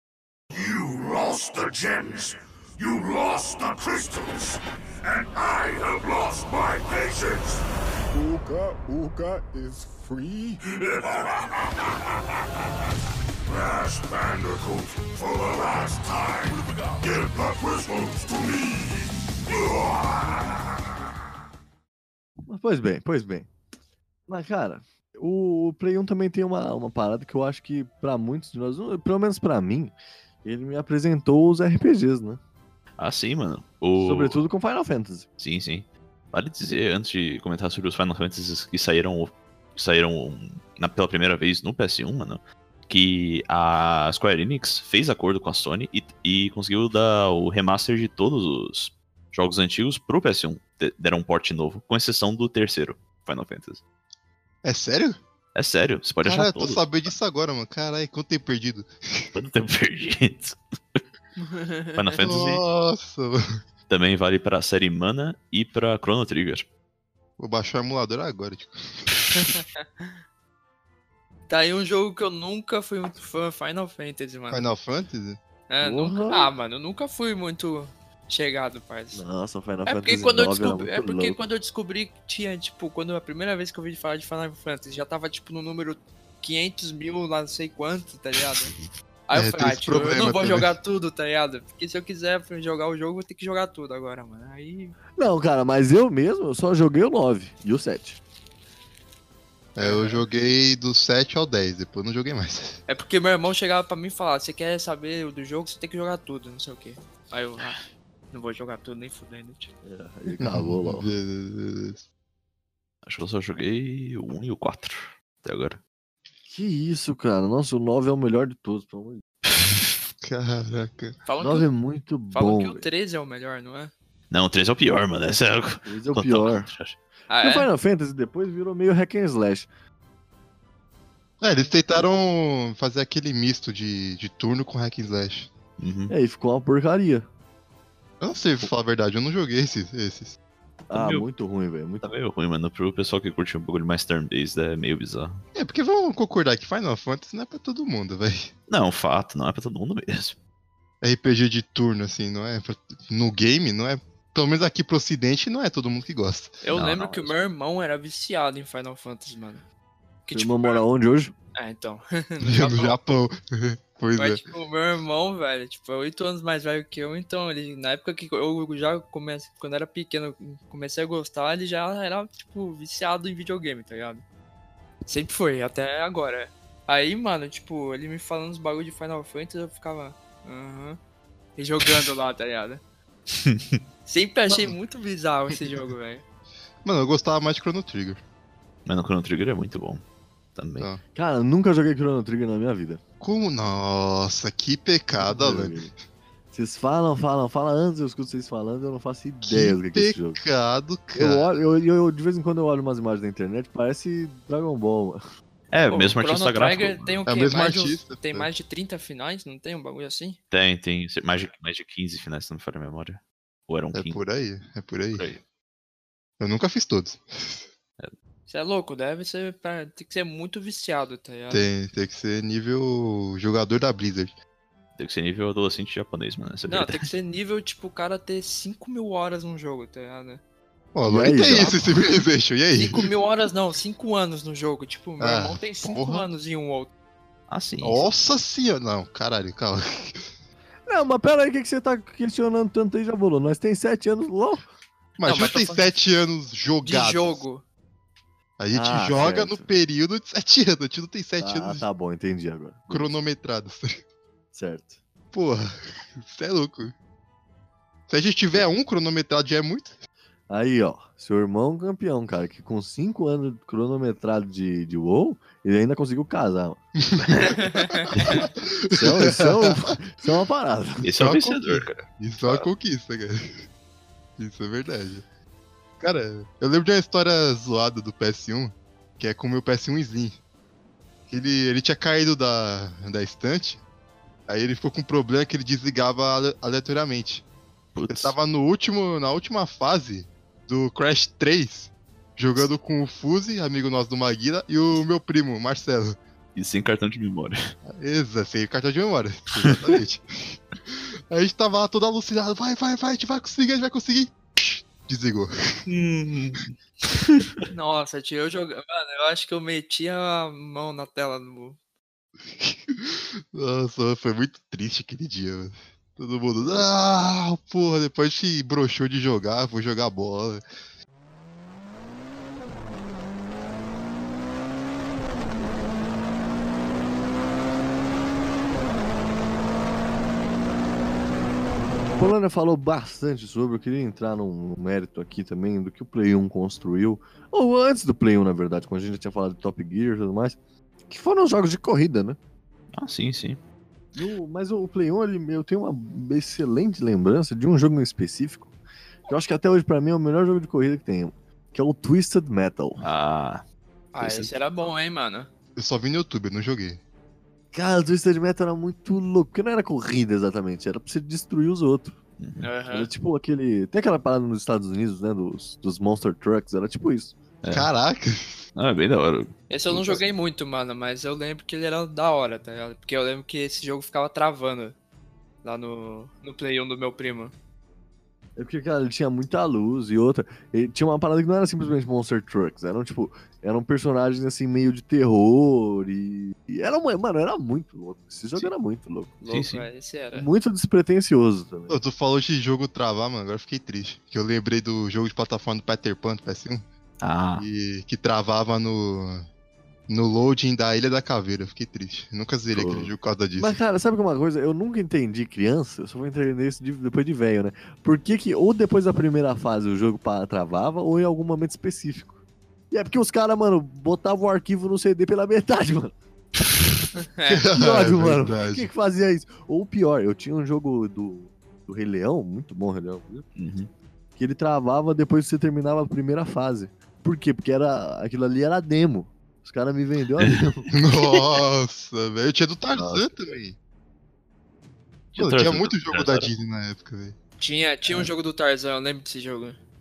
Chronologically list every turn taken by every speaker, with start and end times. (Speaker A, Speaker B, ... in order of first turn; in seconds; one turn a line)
Speaker A: 0.5-12.0
Speaker A: 13.4-20.6
Speaker B: 22.4-23.5
Speaker B: 24.3-32.4
Speaker C: 33.0-34.4
Speaker B: 34.0-35.3
Speaker C: 35.4-53.8
Speaker D: 54.6-55.2
Speaker C: 55.5-57.1
Speaker D: 56.2-59.3
Speaker C: 59.3-61.0
Speaker E: 61.4-62.2
Speaker C: 62.0-62.6
Speaker D: 62.2-63.4
Speaker C: 63.9-66.7
Speaker D: 67.4-69.0
Speaker E: 69.3-70.1
Speaker E: 71.5-74.7
Speaker D: 74.5-75.4
Speaker E: 75.7-79.2
Speaker B: 75.8-76.5
Speaker B: 79.1-81.4
Speaker E: 79.8-88.7
Speaker E: 89.3-94.9
Speaker D: 89.3-90.7
Speaker B: 95.2-98.2
Speaker D: 99.7-102.8
Speaker E: 99.8-100.2
Speaker E: 102.9-107.8
Speaker E: 108.3-109.7
Speaker B: 109.8-111.1
Speaker D: 110.4-112.0
Speaker C: 113.0-115.8
Speaker B: 116.5-119.2
Speaker D: 120.2-121.2
Speaker E: 121.2-121.7
Speaker B: 121.4-122.8
Speaker E: 122.3-123.9
Speaker C: 124.3-127.0
Speaker B: 125.8-126.7
Speaker E: 127.3-127.7
Speaker B: 127.4-129.7
Speaker D: 131.4-135.5
Speaker C: 135.8-136.1
Speaker B: 136.1-137.3
Speaker D: 138.2-140.4
Speaker B: 140.9-142.1
Speaker C: 140.9-141.3
Speaker C: 142.0-145.4
Speaker D: 145.5-148.5
Speaker C: 148.7-150.3
Speaker D: 151.0-156.6
Speaker E: 156.6-159.6
Speaker C: 156.7-157.3
Speaker E: 160.2-160.8
Speaker B: 160.3-161.3
Speaker E: 161.5-163.0
Speaker D: 162.4-164.4
Speaker E: 164.2-174.2
Speaker E: 175.1-181.0
Speaker E: 181.6-182.8
Speaker C: 183.3-183.8
Speaker E: 184.1-186.2
Speaker D: 184.5-184.7
Speaker D: 186.8-188.2
Speaker C: 188.8-190.0
Speaker C: 190.6-190.9
Speaker B: 191.1-193.0
Speaker D: 193.2-195.9
Speaker B: 195.2-195.9
Speaker B: 196.5-200.4
Speaker D: 199.4-201.5
Speaker B: 201.1-205.2
Speaker C: 205.7-207.2
Speaker E: 205.9-210.4
Speaker D: 207.2-208.5
Speaker C: 210.5-214.2
Speaker D: 213.9-215.3
Speaker C: 215.1-215.4
Speaker D: 216.4-217.6
Speaker E: 218.5-221.7
Speaker D: 221.5-224.3
Speaker C: 225.0-227.1
Speaker E: 226.7-230.4
Speaker D: 230.9-233.1
Speaker B: 231.0-231.8
Speaker E: 232.7-236.9
Speaker D: 235.2-236.3
Speaker C: 237.5-238.1
Speaker D: 237.8-240.3
Speaker B: 240.9-244.7
Speaker D: 245.2-247.4
Speaker E: 245.2-245.9
Speaker E: 246.8-247.6
Speaker D: 248.6-251.8
Speaker B: 248.7-249.7
Speaker B: 251.4-253.1
Speaker D: 252.9-254.0
Speaker B: 254.5-255.0
Speaker D: 255.3-256.9
Speaker D: 258.1-259.9
Speaker B: 260.5-266.8
Speaker D: 267.1-269.9
Speaker E: 267.5-268.1
Speaker B: 268.9-271.1
Speaker C: 271.0-272.0
Speaker D: 271.1-273.6
Speaker D: 274.4-275.2
Speaker D: 276.0-280.4
Speaker D: 281.3-283.8
Speaker D: 284.5-287.4
Speaker C: 287.9-288.3
Speaker D: 288.1-296.2
Speaker C: 296.5-297.7
Speaker D: 297.9-305.8
Speaker C: 299.6-300.0
Speaker C: 305.9-307.6
Speaker E: 307.7-311.8
Speaker D: 312.5-320.6
Speaker B: 332.1-340.6
Speaker B: 341.1-342.4
Speaker C: 342.9-343.6
Speaker B: 344.1-348.7
Speaker B: 349.3-353.1
Speaker C: 353.0-353.6
Speaker E: 354.1-355.5
Speaker C: 354.2-354.5
Speaker D: 355.8-357.0
Speaker B: 357.7-362.1
Speaker C: 362.4-362.7
Speaker E: 362.6-363.1
Speaker B: 362.9-367.3
Speaker C: 367.6-367.9
Speaker D: 367.7-368.6
Speaker C: 368.8-369.5
Speaker E: 369.7-374.9
Speaker E: 375.6-377.5
Speaker B: 378.6-389.4
Speaker E: 389.4-390.5
Speaker C: 389.5-389.9
Speaker B: 390.3-391.9
Speaker D: 391.9-396.9
Speaker C: 397.2-397.6
Speaker D: 397.6-399.5
Speaker D: 400.1-403.8
Speaker C: 402.7-403.1
Speaker B: 403.6-412.3
Speaker B: 412.9-416.1
Speaker E: 417.2-417.6
Speaker D: 417.5-418.9
Speaker B: 417.7-423.4
Speaker C: 423.6-423.9
Speaker B: 424.4-430.9
Speaker D: 430.9-433.8
Speaker C: 432.9-433.2
Speaker C: 435.3-436.5
Speaker D: 435.4-437.4
Speaker E: 437.6-439.8